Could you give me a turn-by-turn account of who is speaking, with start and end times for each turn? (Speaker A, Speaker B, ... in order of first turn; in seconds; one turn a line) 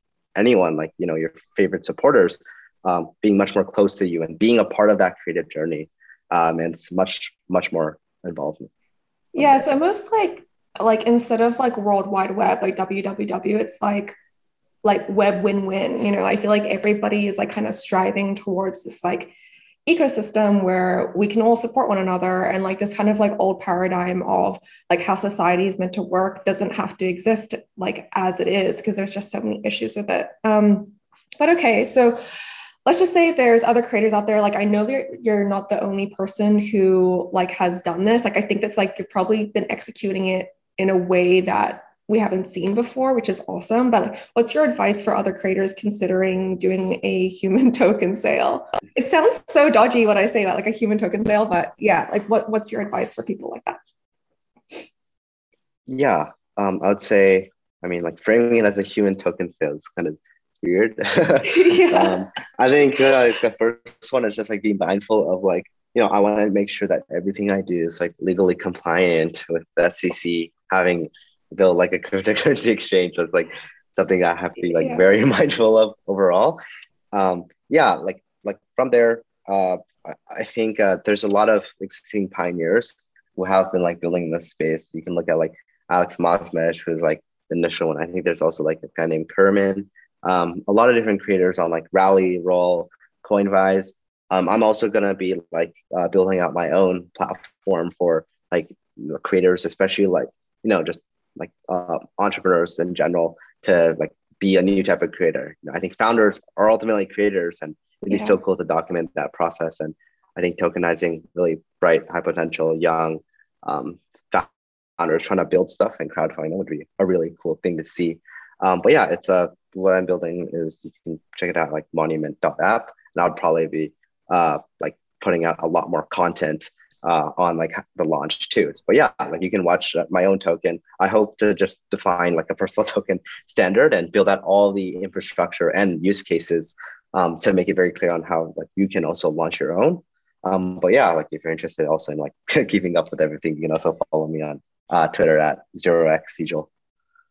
Speaker A: 0.4-8.7
Speaker B: 9.3-14.2
Speaker A: 9.4-9.7
Speaker B: 14.8-19.3
Speaker B: 19.9-32.2
Speaker B: 32.9-53.8
Speaker A: 55.9-76.6
Speaker B: 61.4-62.2
Speaker B: 74.6-75.1
Speaker A: 77.1-146.7
Speaker B: 108.1-108.4